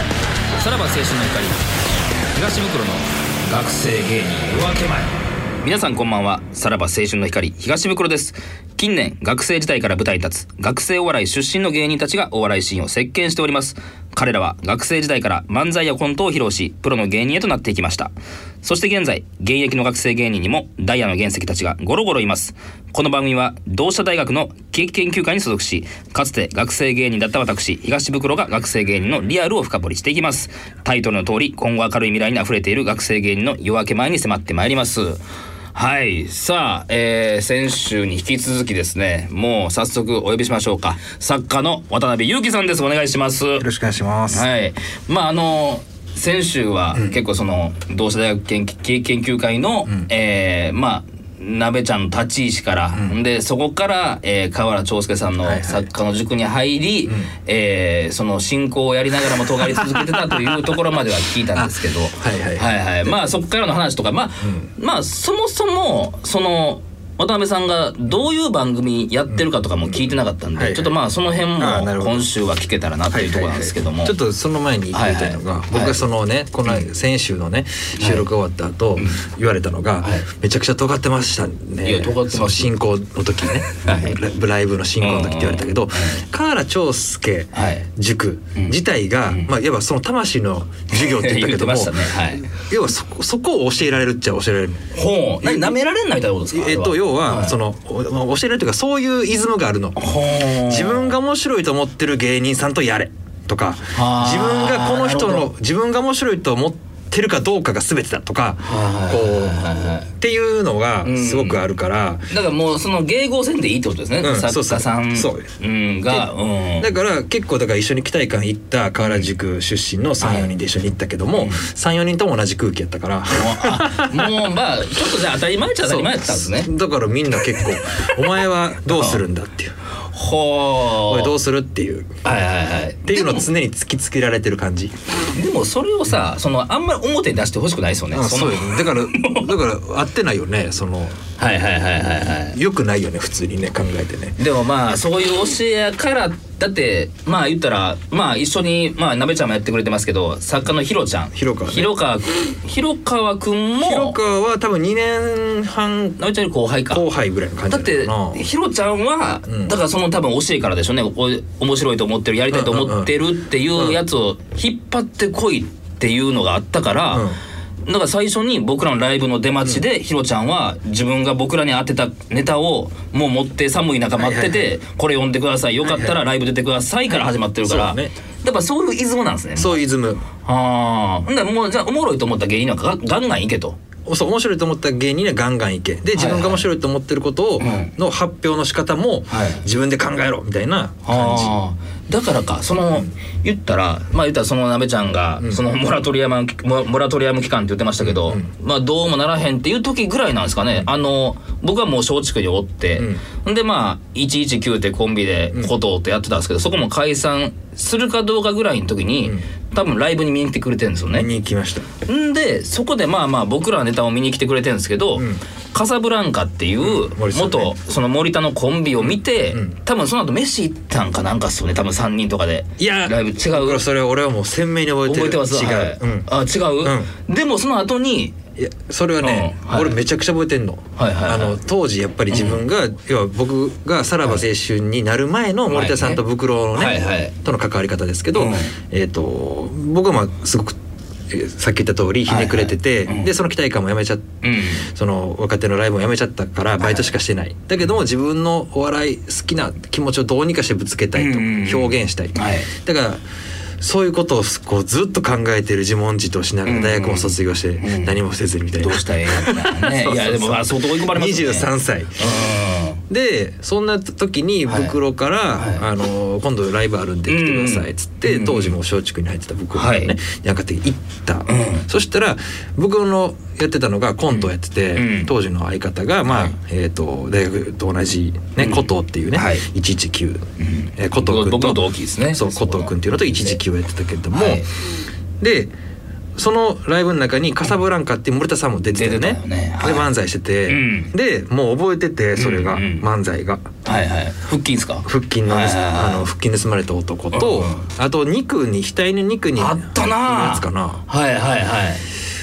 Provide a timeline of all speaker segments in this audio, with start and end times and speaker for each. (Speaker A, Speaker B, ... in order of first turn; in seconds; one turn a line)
Speaker A: 0.5-1.6
Speaker A: 2.3-35.2
Speaker A: 35.7-43.6
Speaker B: 43.6-44.5
Speaker A: 44.3-74.2
Speaker B: 55.4-55.9
Speaker B: 59.3-60.7
Speaker B: 61.5-63.2
Speaker B: 69.3-70.0
Speaker B: 70.5-71.0
Speaker B: 71.6-72.3
Speaker B: 73.1-94.8
Speaker A: 74.9-76.0
Speaker A: 78.0-78.3
Speaker A: 79.0-79.2
Speaker A: 80.0-80.2
Speaker A: 81.8-82.7
Speaker A: 83.8-84.2
Speaker A: 85.0-86.2
Speaker A: 87.5-87.9
Speaker A: 90.9-92.5
Speaker A: 94.9-97.5
Speaker B: 95.4-95.8
Speaker B: 96.5-100.0
Speaker A: 100.0-101.1
Speaker B: 100.6-112.3
Speaker A: 103.9-105.5
Speaker A: 108.6-110.1
Speaker A: 111.0-111.6
Speaker A: 112.3-116.9
Speaker B: 114.2-115.5
Speaker B: 116.8-124.5
Speaker A: 119.0-119.2
Speaker A: 120.2-120.5
Speaker A: 121.4-121.6
Speaker A: 123.4-126.7
Speaker B: 125.8-129.7
Speaker A: 128.9-129.2
Speaker A: 130.1-131.3
Speaker B: 131.0-132.1
Speaker A: 132.2-133.5
Speaker B: 133.1-134.9
Speaker A: 135.3-139.6
Speaker B: 138.1-141.2
Speaker A: 141.4-142.6
Speaker B: 142.5-144.3
Speaker A: 144.4-154.2
Speaker B: 151.3-151.9
Speaker B: 153.8-156.2
Speaker A: 156.2-157.0
Speaker B: 156.9-158.4
Speaker A: 157.7-167.2
Speaker B: 159.5-159.7
Speaker B: 162.5-163.1
Speaker B: 167.1-167.4
Speaker A: 167.8-179.8
Speaker B: 174.2-174.7
Speaker B: 175.8-176.2
Speaker B: 177.1-178.1
Speaker B: 179.6-180.2
Speaker A: 180.4-183.8
Speaker B: 184.1-191.6
Speaker A: 186.1-186.7
Speaker A: 187.6-187.9
Speaker A: 189.3-189.6
Speaker A: 191.1-211.3
Speaker B: 198.0-198.5
Speaker B: 202.9-203.2
Speaker B: 211.1-211.9
Speaker A: 212.0-223.8
Speaker B: 216.8-217.7
Speaker B: 219.0-219.7
Speaker B: 222.8-226.3
Speaker A: 225.1-228.3
Speaker B: 226.8-227.1
Speaker B: 228.6-240.8
Speaker A: 229.2-230.0
Speaker A: 231.0-231.6
Speaker A: 232.3-232.6
Speaker A: 235.7-236.2
Speaker A: 236.7-237.3
Speaker A: 238.3-238.7
Speaker B: 241.3-244.3
Speaker A: 242.3-243.3
Speaker A: 244.4-244.9
Speaker B: 244.8-253.2
Speaker A: 246.8-247.1
Speaker A: 251.1-252.7
Speaker B: 253.8-262.2
Speaker A: 256.6-258.2
Speaker A: 258.8-263.0
Speaker B: 263.1-280.4
Speaker A: 264.7-264.9
Speaker A: 267.3-268.7
Speaker A: 269.7-270.1
Speaker A: 271.5-271.9
Speaker A: 274.4-275.3
Speaker A: 278.6-279.6
Speaker A: 280.6-283.6
Speaker B: 281.0-284.6
Speaker A: 284.3-284.7
Speaker B: 285.4-285.7
Speaker B: 286.4-293.7
Speaker A: 288.9-290.1
Speaker A: 290.7-291.1
Speaker A: 292.4-293.0
Speaker A: 293.8-296.2
Speaker B: 295.0-301.0
Speaker A: 297.3-297.9
Speaker A: 299.6-302.0